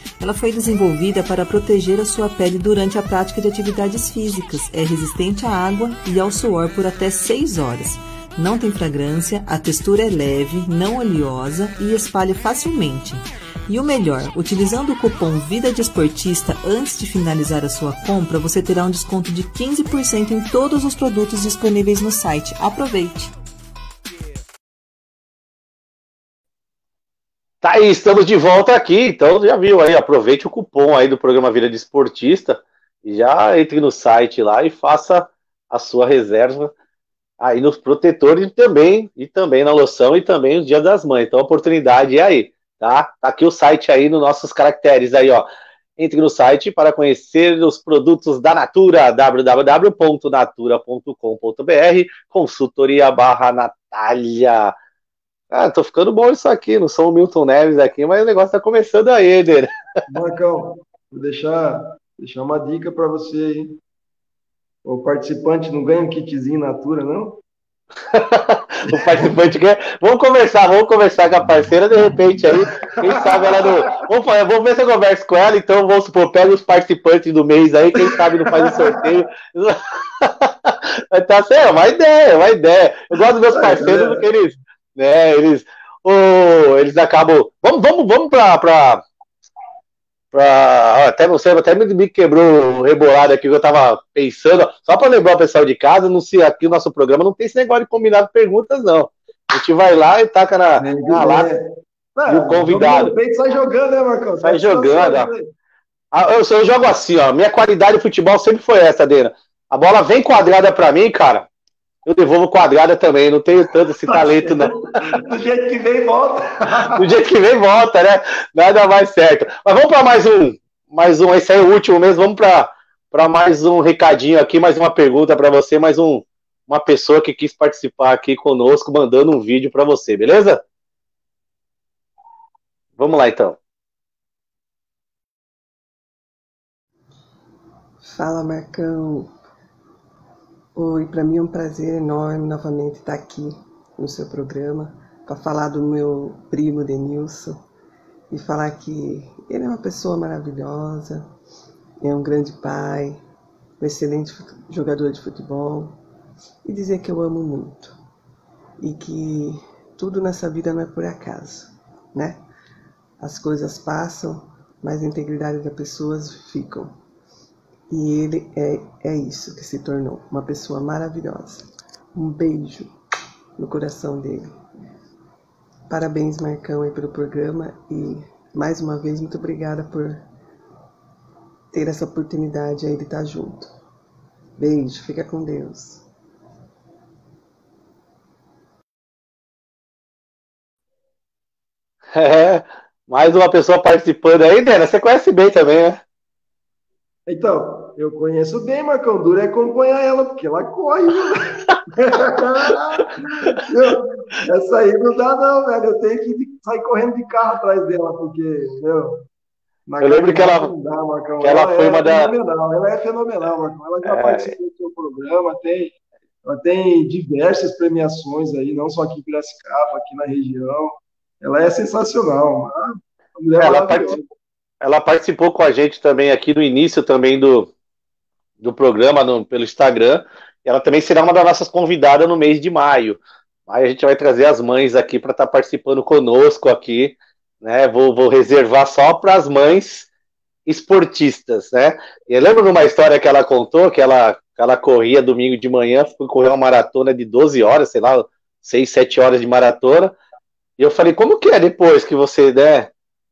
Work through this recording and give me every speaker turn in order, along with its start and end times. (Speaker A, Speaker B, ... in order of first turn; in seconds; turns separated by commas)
Speaker A: 0.2-23.3, Speaker B: 27.6-36.7, Speaker B: 37.4-45.5, Speaker B: 46.0-54.8, Speaker B: 55.5-59.7, Speaker C: 60.1-63.8, Speaker C: 64.8-67.4, Speaker B: 68.1-89.0, Speaker C: 68.9-69.3, Speaker C: 72.8-73.8, Speaker C: 78.0-79.1, Speaker C: 83.5-84.3, Speaker B: 90.3-101.5, Speaker C: 100.8-105.5, Speaker B: 102.3-103.1, Speaker B: 104.4-105.3, Speaker B: 106.1-111.5, Speaker B: 112.1-114.8, Speaker C: 114.1-117.0, Speaker B: 117.0-130.6, Speaker B: 133.0-133.6, Speaker D: 138.0-139.3, Speaker D: 140.8-147.6, Speaker D: 148.3-151.3, Speaker D: 152.0-153.2, Speaker D: 153.8-156.0, Speaker D: 156.7-158.0, Speaker D: 158.8-162.4, Speaker D: 163.2-166.9, Speaker D: 167.9-172.9, Speaker D: 173.6-174.5, Speaker D: 175.9-180.2, Speaker D: 181.7-183.7, Speaker D: 184.6-186.0, Speaker B: 192.1-196.0, Speaker C: 197.3-209.2, Speaker C: 209.9-215.9, Speaker B: 210.0-210.7, Speaker B: 211.4-212.3, Speaker B: 214.1-214.5, Speaker C: 216.4-224.3, Speaker B: 223.6-224.2, Speaker B: 224.8-227.7, Speaker B: 228.6-240.1, Speaker B: 240.7-250.1, Speaker B: 250.8-252.9